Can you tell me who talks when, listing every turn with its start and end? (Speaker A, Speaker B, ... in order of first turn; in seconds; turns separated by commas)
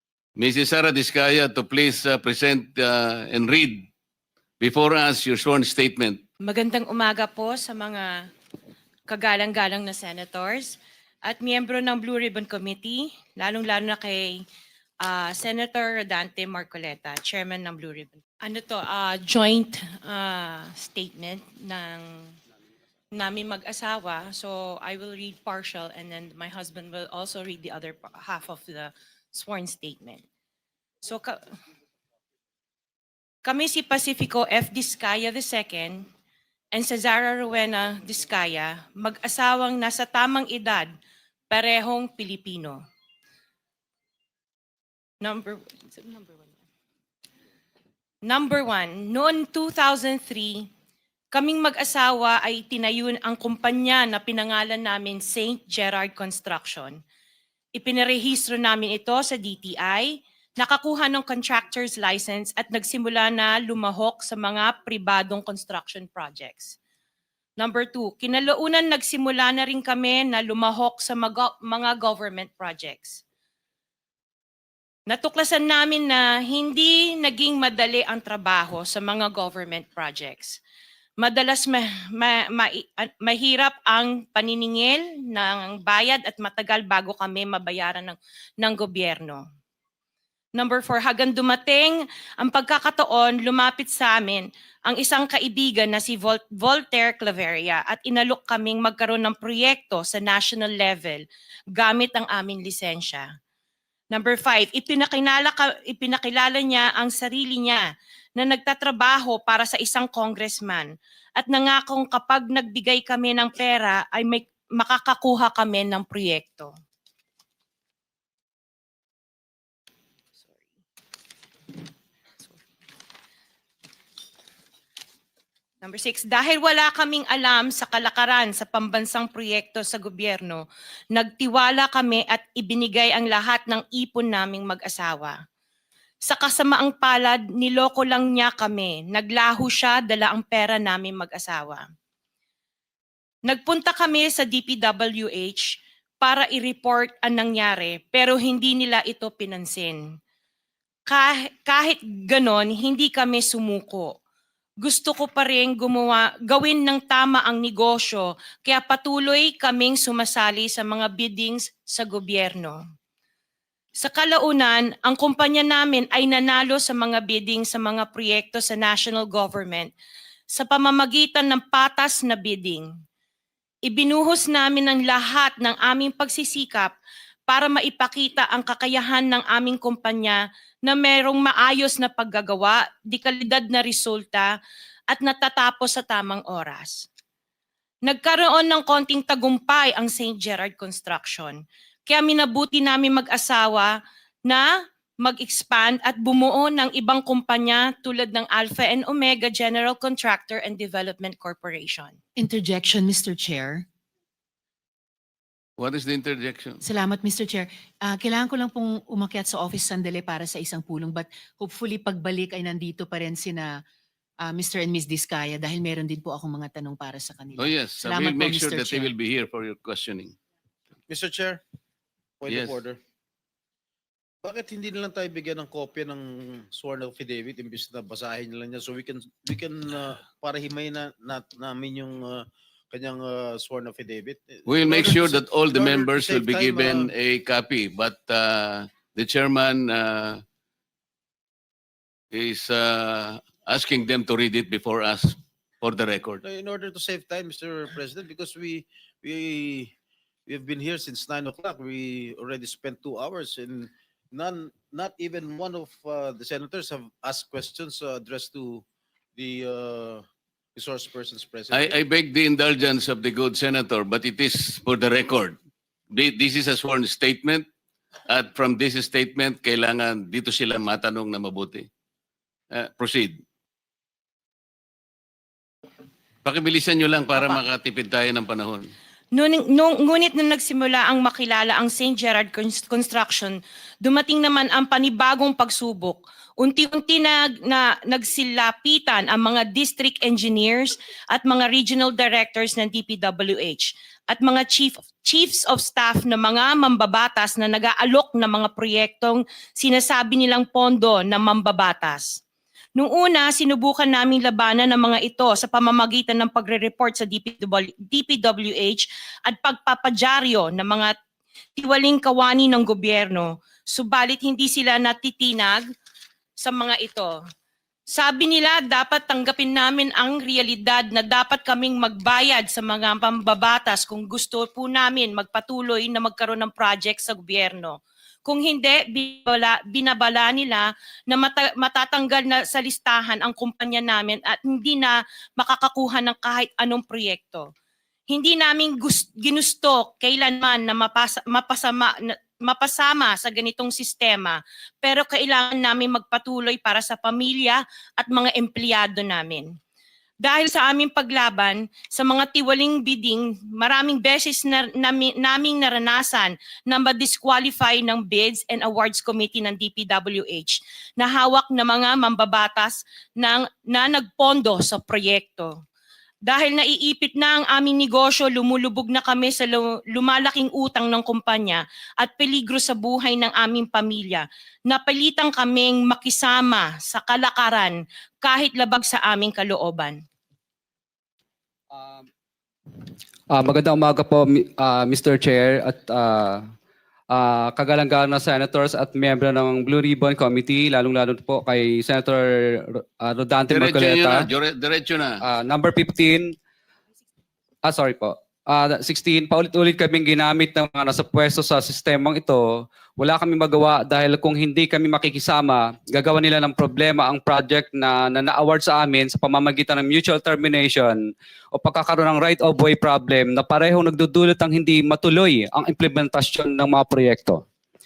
Speaker A: 0.4-3.9, Speaker A: 4.6-6.2, Speaker B: 6.5-8.2, Speaker B: 9.1-14.4, Speaker B: 15.0-22.3, Speaker B: 23.1-30.2, Speaker B: 31.0-31.4, Speaker B: 33.5-36.0, Speaker B: 36.7-40.9, Speaker B: 41.5-42.8, Speaker B: 45.2-46.5, Speaker B: 48.3-50.7, Speaker B: 51.3-56.9, Speaker B: 57.8-66.8, Speaker B: 67.6-73.2, Speaker B: 75.1-80.6, Speaker B: 81.2-89.4, Speaker B: 90.5-103.2, Speaker B: 104.1-107.8, Speaker B: 108.4-116.7, Speaker B: 125.8-135.3, Speaker B: 136.3-141.8, Speaker B: 143.5-145.7, Speaker B: 146.2-150.0, Speaker B: 151.1-154.2, Speaker B: 154.8-162.8, Speaker B: 164.0-169.9, Speaker B: 170.5-172.9, Speaker B: 173.9-176.9, Speaker B: 177.5-184.5, Speaker B: 185.1-187.1, Speaker B: 188.1-191.6, Speaker B: 192.1-193.9, Speaker B: 195.2-202.2, Speaker C: 202.4-203.8, Speaker A: 205.8-206.8, Speaker C: 206.8-213.8, Speaker C: 214.4-219.1, Speaker A: 217.6-220.3, Speaker D: 221.1-221.6, Speaker D: 222.4-223.0, Speaker A: 222.5-222.8, Speaker D: 224.4-237.1, Speaker A: 234.7-240.4, Speaker A: 242.3-246.4, Speaker D: 246.4-249.9, Speaker D: 250.5-258.8, Speaker D: 259.4-260.2, Speaker D: 260.8-261.9, Speaker A: 261.7-265.6, Speaker A: 266.1-267.7, Speaker A: 268.3-271.9, Speaker A: 272.7-273.4, Speaker A: 276.4-278.9, Speaker B: 279.3-302.4, Speaker B: 303.0-311.1, Speaker B: 311.8-315.8, Speaker B: 316.6-317.3, Speaker B: 318.1-337.7, Speaker B: 338.3-349.7, Speaker B: 350.4-365.7, Speaker B: 366.5-380.2, Speaker E: 381.9-382.2, Speaker E: 383.5-386.6, Speaker E: 387.3-394.5, Speaker A: 393.7-395.4, Speaker E: 395.4-396.6, Speaker E: 397.9-417.6